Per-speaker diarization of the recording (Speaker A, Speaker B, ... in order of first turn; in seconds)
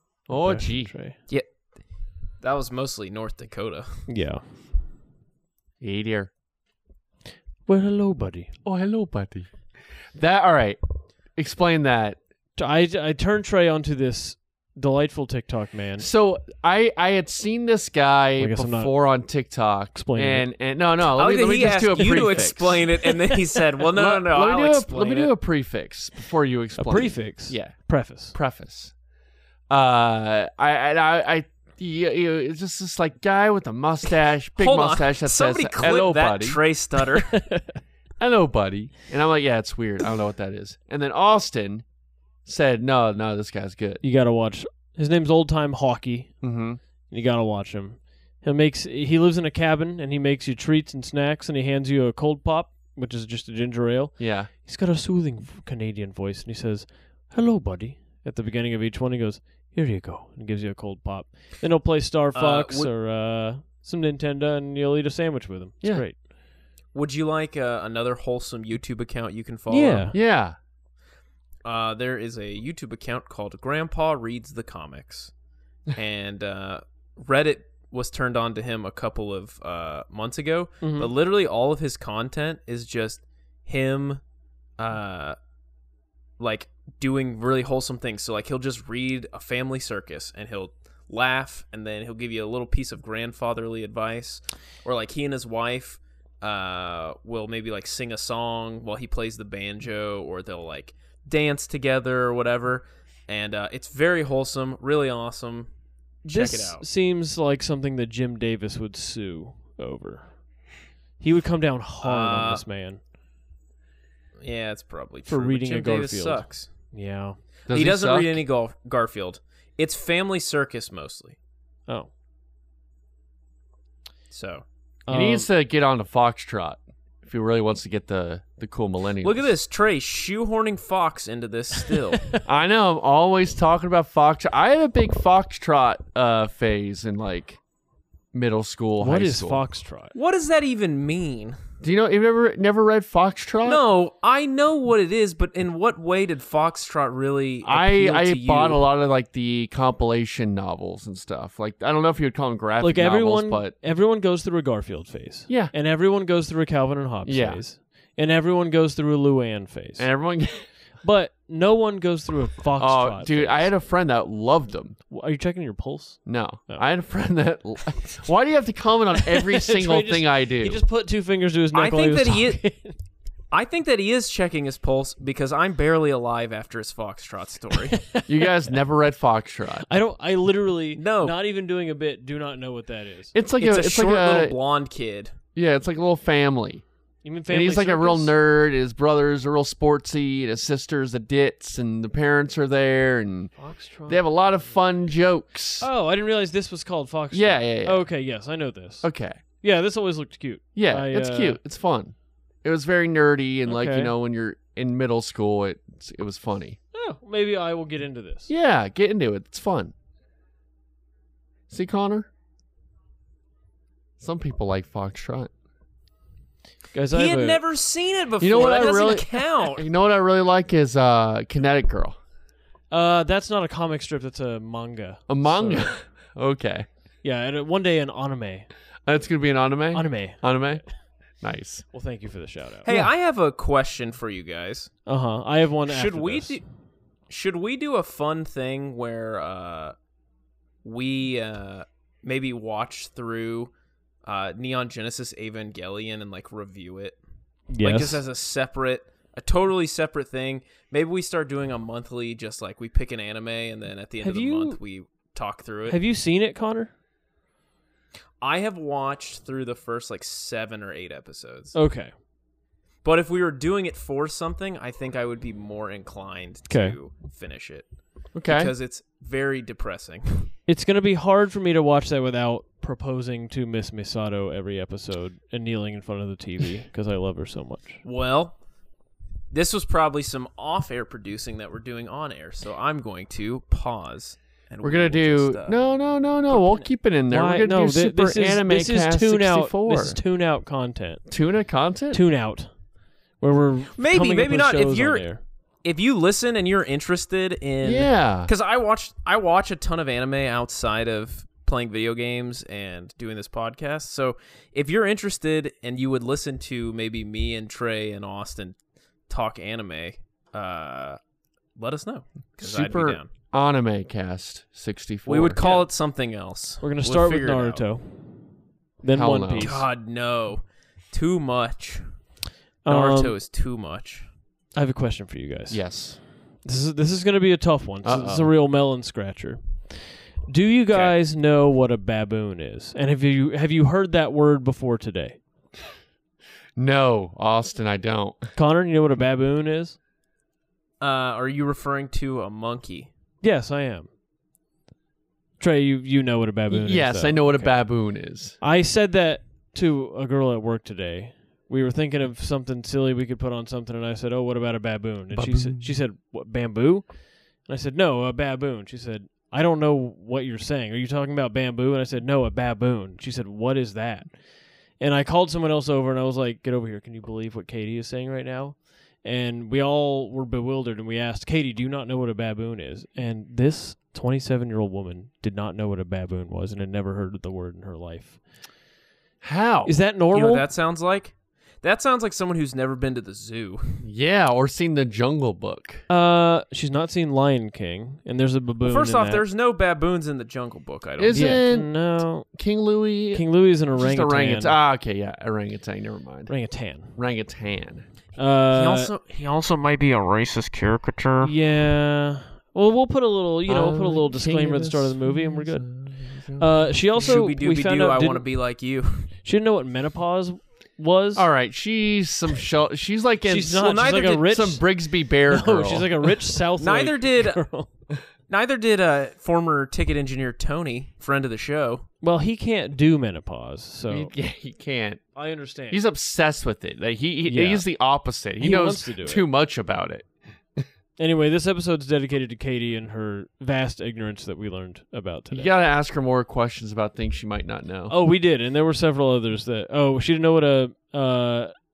Speaker A: 0.3-1.2, 4.1-4.5, 7.7-8.5, 12.6-16.1, 18.4-18.9, 19.9-20.5, 22.0-23.6, 26.8-28.4, 37.4-37.8, 44.0-46.4, 47.1-66.2, 69.7-70.2, 80.8-81.1, 106.3-110.5, 111.2-113.0, 115.3-117.4, 125.1-125.5, 139.0-140.1, 152.8-160.1, 161.0-163.7, 165.1-166.9, 169.3-173.0, 177.9-178.3, 179.9-183.3, 187.2-188.3, 193.6-194.3, 195.8-201.6, 203.7-204.1, 206.9-208.5, 216.9-217.6, 222.9-225.9, 227.2-228.7, 229.9-230.9, 231.9-232.9, 235.1-236.6, 247.7-248.2, 254.2-254.8, 255.9-256.9, 261.7-262.1, 266.7-267.0, 270.7-278.0, 287.3-291.2, 292.1-292.8, 293.4-295.4, 315.6-315.9, 316.8-319.8, 322.8-323.4, 324.8-335.4, 338.6-340.0, 343.4-344.1, 345.6-347.8, 348.6-378.4, 379.9-380.7, 386.1-389.4, 391.3-392.5, 393.3-394.8, 396.5-397.2, 398.4-399.1, 401.4-405.9, 406.6-408.4, 409.4-411.5, 413.4-414.9, 415.5-417.9, 422.2-424.3, 425.4-426.0, 427.4-427.9, 428.6-429.5, 431.2-435.7, 438.1-441.8
Speaker B: 0.3-1.0, 5.8-6.3, 8.7-9.5, 10.1-10.8, 11.3-12.2, 16.0-22.9, 23.9-27.8, 28.3-28.9, 29.7-36.6, 38.2-41.9, 42.5-44.0, 46.4-46.8, 54.2-54.5, 70.1-70.6, 117.7-118.4, 125.1-129.5, 132.4-137.6, 138.3-139.6, 141.8-143.8, 147.7-153.8, 155.5-155.7, 157.3-157.6, 160.0-160.7, 162.8-165.0, 166.3-170.8, 178.3-179.9, 183.3-184.6, 185.6-186.8, 187.5-193.5, 194.1-195.9, 197.3-198.1, 199.0-199.4, 200.8-206.8, 208.5-209.9, 211.7-212.3, 214.2-215.5, 218.4-222.2, 225.3-226.9, 229.1-230.8, 231.4-231.9, 268.3-268.7, 284.8-290.2, 291.3-292.2, 297.8-298.5, 312.6-315.6, 319.1-319.8, 325.7-326.2, 328.0-328.5, 336.8-338.5, 346.7-348.6, 355.3-355.9, 379.4-379.9, 384.0-386.0, 391.2-396.5, 397.1-398.1, 403.7-407.3, 411.4-416.2, 424.1-425.2, 425.9-430.9, 435.5-438.1
Speaker C: 2.4-4.1, 21.2-25.3, 34.6-37.4, 62.4-62.9, 66.9-70.1, 71.7-75.3, 75.9-84.2, 84.8-85.4, 86.4-105.7, 106.2-106.8, 112.0-112.6, 114.4-116.7, 117.7-121.4, 124.3-124.6, 129.2-132.3, 140.1-141.6, 143.6-148.8, 171.7-172.6, 173.5-178.0, 181.0-181.3, 183.6-185.3, 217.1-219.9, 232.8-234.9, 235.9-236.6, 237.3-239.9, 240.8-243.7, 244.2-247.2, 247.8-256.0, 258.4-261.8, 263.0-270.5, 278.0-278.6, 279.5-285.8, 286.4-286.9, 294.0-308.8, 309.3-311.2, 311.8-313.3, 315.3-317.9, 319.6-322.2, 322.9-324.3, 341.0-343.1, 380.3-384.0, 388.8-391.4, 398.7-401.5, 407.2-409.3, 413.9-414.4, 416.8-417.6, 418.5-422.1